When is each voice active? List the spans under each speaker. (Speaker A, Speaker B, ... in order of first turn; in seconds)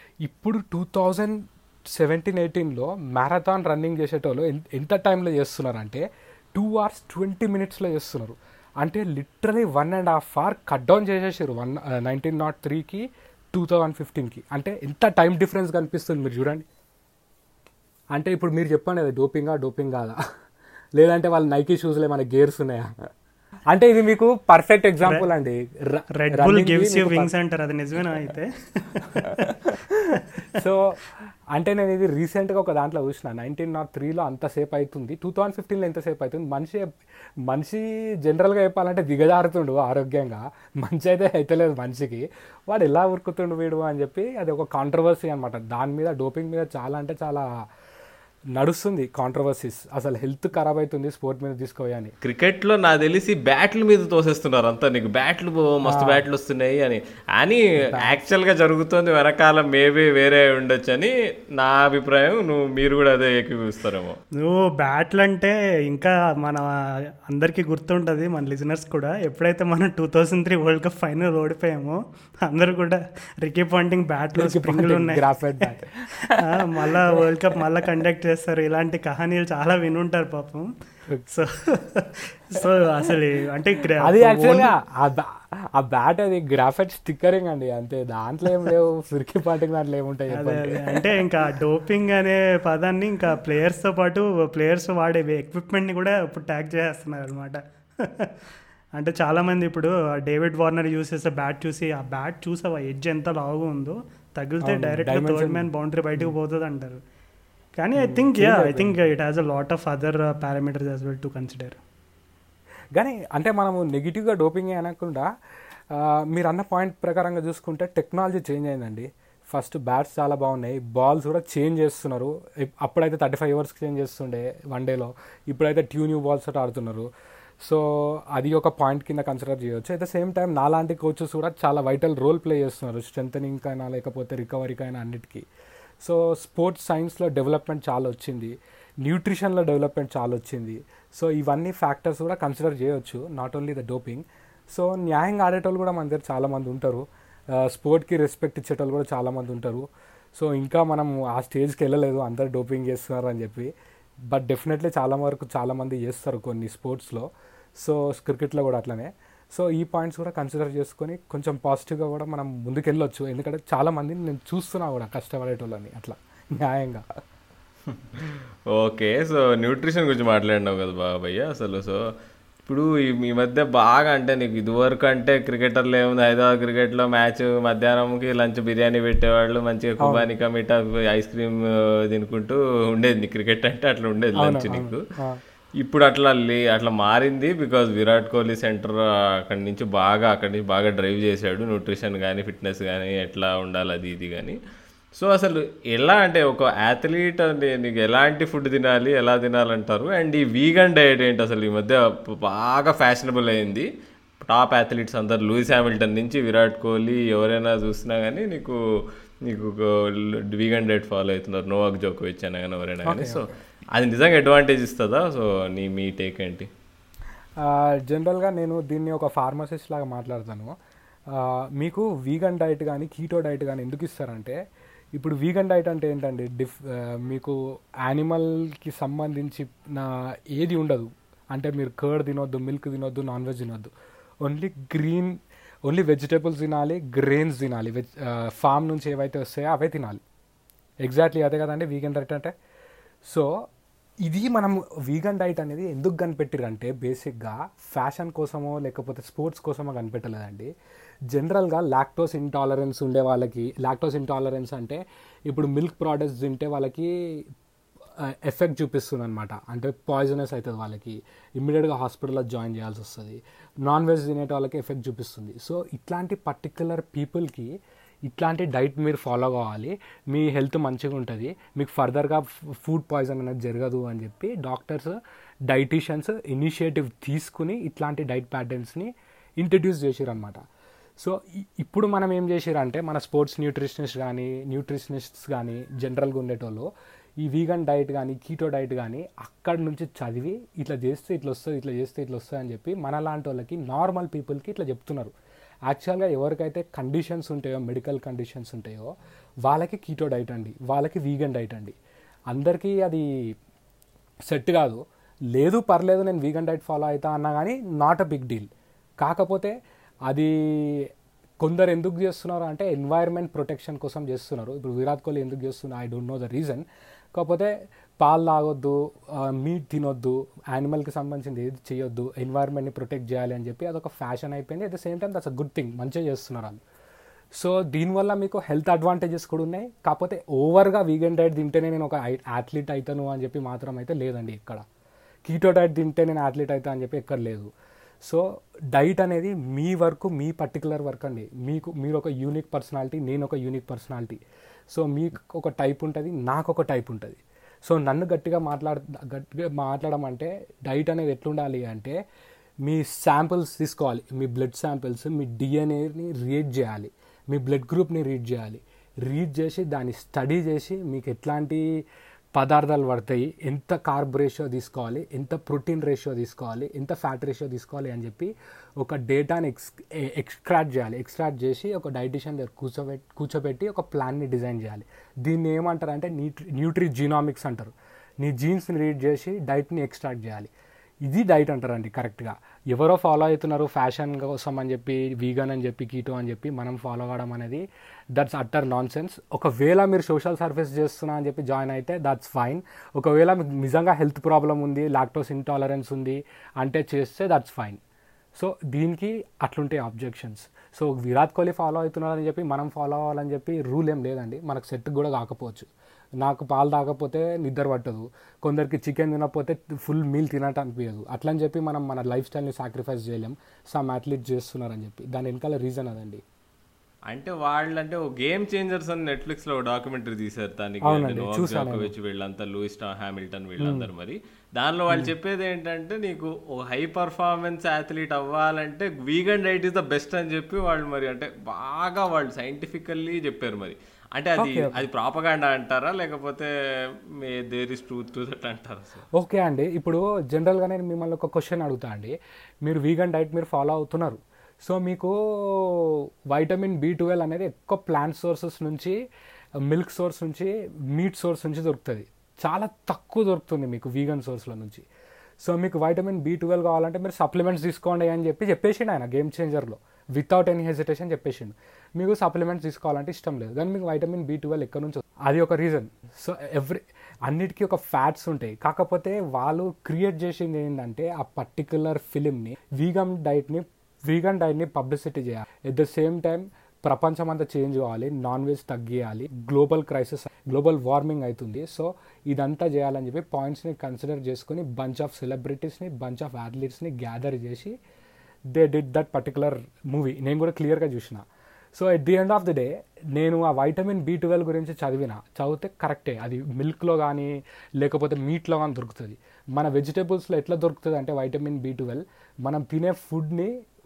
Speaker A: 0.2-16.6, 18.1-20.2, 21.0-22.9, 23.7-27.3, 29.0-36.9, 37.5-47.5, 48.6-52.1, 55.9-56.3, 57.8-58.2, 74.4-77.2, 84.0-91.1, 104.6-105.7, 108.0-109.0, 113.0-115.3, 115.9-127.1, 127.6-135.5, 136.0-153.7, 154.3-167.1, 180.0-180.3, 184.4-185.4, 213.1-213.6, 217.6-220.7, 221.3-224.6, 225.2-233.9, 234.4-240.2, 241.1-242.5, 243.2-243.7, 244.2-250.7, 251.3-257.5, 258.2-267.8, 268.3-275.2, 275.7-280.6, 281.2-286.9, 287.4-295.3, 295.9-299.1, 299.6-302.0, 302.5-303.5, 304.5-305.0, 305.5-308.7, 309.2-309.8, 310.3-311.1, 311.6-326.8, 327.6-334.8, 335.4-337.7, 338.2-352.2, 352.8-361.9, 362.5-380.7, 381.3-398.0, 398.6-405.9, 406.4-416.4, 421.0-422.1, 423.8-424.1, 434.6-435.1, 439.4-449.2, 449.9-455.1, 455.6-487.9, 488.7-503.7
Speaker B: 26.2-29.5, 30.2-30.6, 64.4-75.3, 76.4-80.7, 81.2-84.7, 90.3-98.3, 99.0-107.0, 107.8-111.8
Speaker C: 52.2-64.2, 168.7-172.0, 172.7-185.0, 185.8-194.6, 195.2-203.9, 204.4-208.8, 209.5-216.7, 417.3-436.7, 437.3-439.2